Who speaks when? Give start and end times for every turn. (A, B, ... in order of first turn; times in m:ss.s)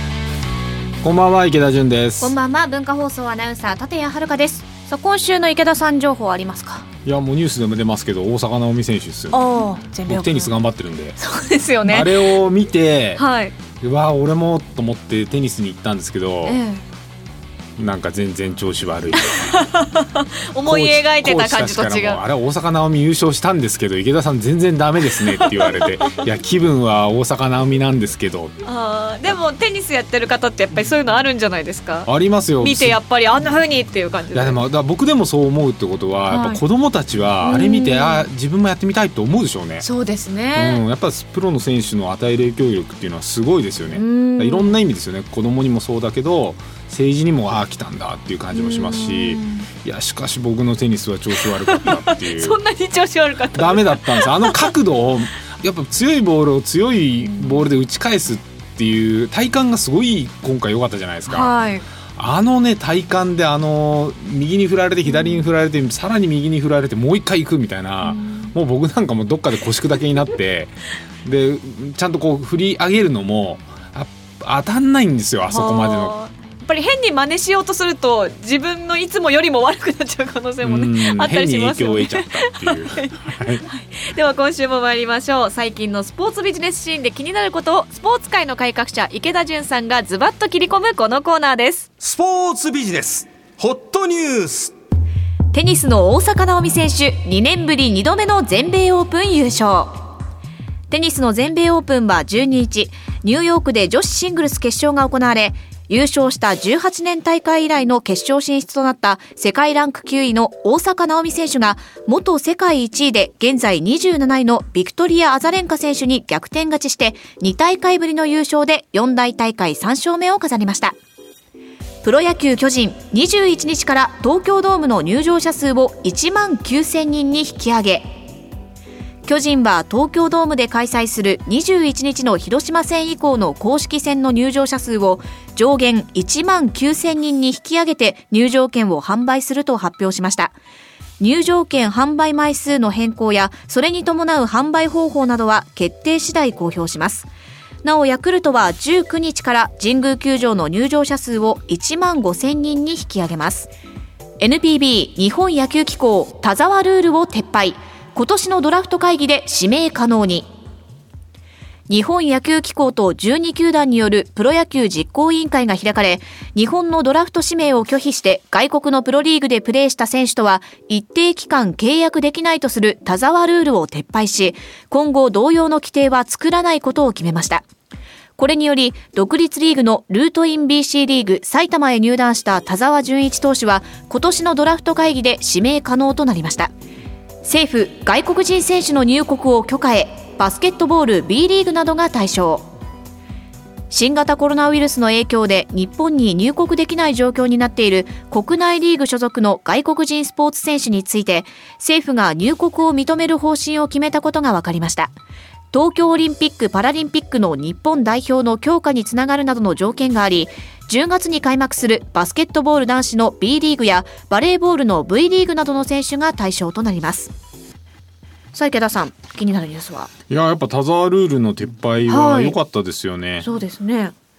0:01.0-0:02.4 A
0:02.2-0:06.9 B
0:07.0-0:09.4 A
0:09.3-0:10.5 B
0:10.1-0:11.2 A
0:11.2-0:12.3 B
0:11.9-0:13.2 A
0:13.2-0:13.6 B
0:13.8-0:16.6 A
0:16.4-0:16.8 B
0:17.8-0:19.5 A
0:19.2-0:22.2 B
0:20.6-0:28.6 A
0:25.0-0:26.2 B
0:28.6-0:32.1 B
0:32.1-0:33.0 A
0:32.6-0:34.6 B
0:34.3-0:39.9 A
0:36.3-0:36.6 B
0:37.4-0:38.3 B
0:39.8-0:40.8 B
0:40.6-0:52.6 A
0:43.9-0:44.8 B
0:48.5-0:49.7 B
0:51.4-0:54.7 B
0:53.5-1:01.5 A
0:57.2-0:57.6 B
1:01.3-1:01.8 B
1:02.2-1:16.2 A
1:05.1-1:05.4 B
1:08.0-1:08.5 B
1:15.5-1:31.9 B
1:20.6-1:23.6 A
1:32.0-1:34.7 C
1:35.5-1:40.0 B
1:40.9-2:01.0 B
2:02.0-2:08.1 B
2:09.3-2:20.5 B
2:21.2-2:27.3 B
2:27.8-2:33.7 B
2:34.4-2:40.5 B
2:41.9-2:57.7 B
2:58.4-3:06.7 B
3:07.4-3:12.7 B
3:13.9-3:25.1 B
3:25.7-3:37.3 B
3:38.5-3:40.1 B
3:40.3-3:43.5 A
3:42.1-3:42.6 B
3:43.4-3:44.2 B